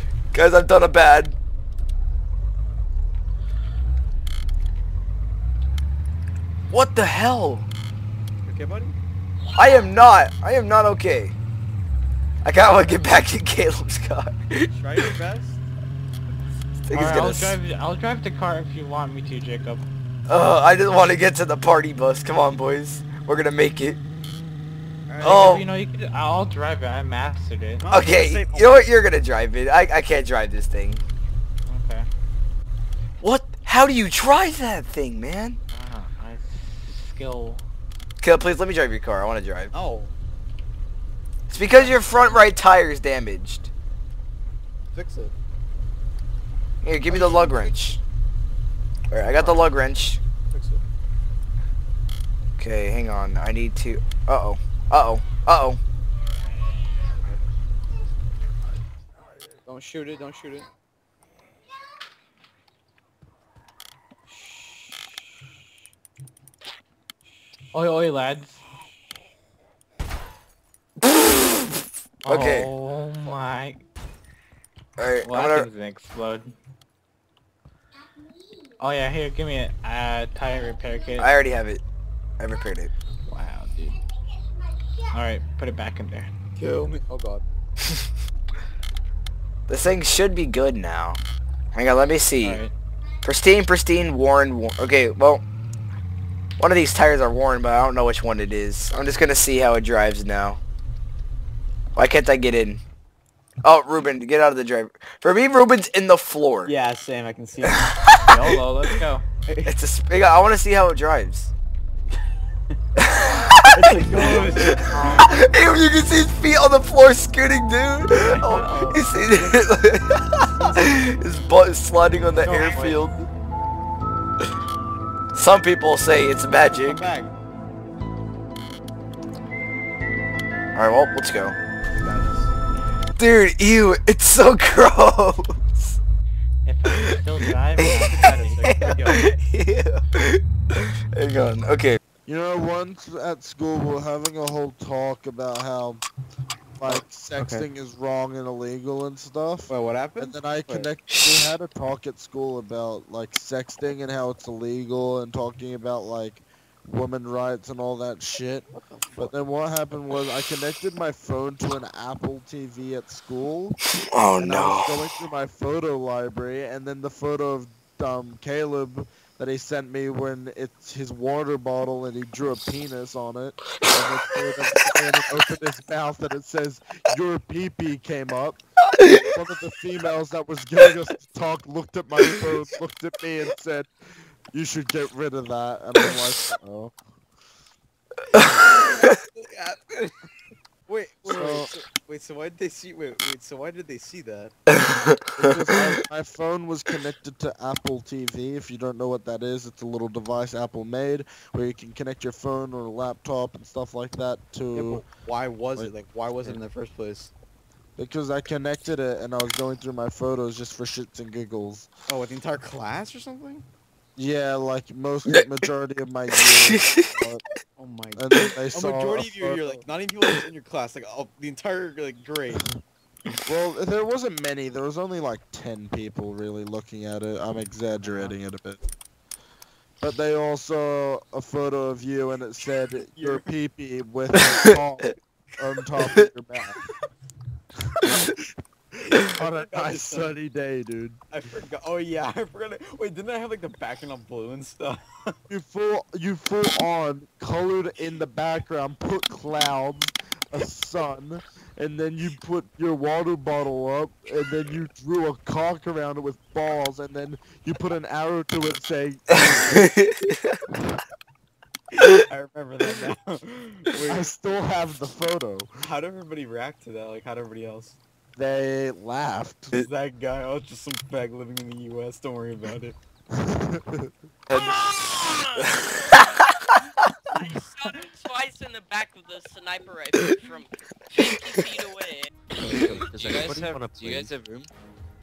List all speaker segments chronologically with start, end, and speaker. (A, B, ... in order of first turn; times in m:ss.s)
0:00.3-0:01.4 A
0:06.7-0:07.7 A
0:08.4-0:09.0 B
0:09.6-0:11.3 A
0:12.4-0:15.1 A
0:14.7-0:15.6 B
0:16.8-0:17.6 A
0:16.9-0:19.8 C
0:20.3-0:24.0 A
0:25.1-0:25.5 B
0:25.2-0:27.8 C
0:25.2-0:25.7 A
0:27.8-0:28.9 B
0:27.9-0:31.0 A
0:31.7-0:32.1 C
0:33.2-0:35.6 A
0:35.7-0:37.6 C
0:38.2-0:39.7 A
0:39.7-0:40.1 B
0:41.5-0:43.7 A
0:41.6-0:42.4 B
0:44.9-0:45.3 B
0:46.8-0:48.0 A
0:47.1-0:47.7 B
0:49.1-0:50.2 A
0:49.2-0:49.7 B
0:50.5-0:50.8 B
0:52.6-0:55.8 A
0:59.6-1:00.7 B
1:04.3-1:05.2 B
1:07.7-1:08.6 C
1:11.1-1:11.7 A
1:12.2-1:12.7 A
1:12.2-1:13.8 C
1:15.0-1:15.7 A
1:15.2-1:16.5 C
1:18.8-1:21.3 C
1:21.2-1:21.8 A
1:22.4-1:22.9 A
1:23.3-1:24.0 C
1:25.1-1:26.3 C
1:26.6-1:27.4 B
1:29.7-1:31.2 A
1:31.8-1:32.6 A
1:32.4-1:32.7 C
1:33.2-1:35.4 A
1:36.6-1:40.6 A
1:42.0-1:42.8 A
1:43.6-1:46.7 A
1:46.6-1:47.9 B
1:47.7-1:48.5 A
1:48.2-1:49.3 C
1:49.5-1:49.8 B
1:49.7-1:51.5 A
1:53.0-2:03.2 A
1:53.7-1:55.2 B
1:55.0-1:55.2 C
1:58.2-1:59.6 B
2:00.5-2:01.0 B
2:02.4-2:03.1 B
2:05.4-2:07.0 A
2:06.6-2:07.3 B
2:10.8-2:11.6 A
2:12.0-2:12.5 B
2:13.2-2:16.0 A
2:16.7-2:18.6 C
2:16.9-2:17.2 A
2:17.8-2:22.0 A
2:18.1-2:19.3 B
2:22.3-2:26.0 D
2:26.8-2:43.8 D
2:26.9-2:27.7 B
2:29.7-2:30.9 B
2:31.1-2:31.5 A
2:38.7-2:39.3 B
2:44.1-2:45.0 A
2:44.4-3:03.9 D
3:04.5-3:07.0 D
3:09.4-3:10.1 B
3:10.9-3:14.5 B
3:11.2-3:11.7 D
3:14.7-3:15.8 A
3:15.4-3:25.1 D
3:24.7-3:27.3 B
3:28.0-3:31.9 D
3:32.1-3:33.6 B
3:34.2-3:37.4 D
3:36.6-3:37.1 A
3:37.8-3:42.6 B
3:38.2-3:39.8 D
3:43.4-3:48.8 D
3:48.0-3:48.4 B
3:50.0-3:56.8 D
3:53.1-3:53.5 B
3:54.4-3:55.1 A
3:58.0-3:58.3 D
3:59.2-4:01.2 D
3:59.4-4:00.3 B
4:01.3-4:05.4 B
4:05.5-4:19.9 D
4:19.4-4:20.6 A
4:22.0-4:24.3 B
4:24.0-4:25.7 D
4:25.8-4:28.0 B
4:28.4-4:29.8 D
4:29.7-4:33.0 B
4:33.3-4:34.1 D
4:34.5-4:34.8 A
4:34.9-4:35.4 E
4:37.4-4:42.3 E
4:42.6-4:44.7 F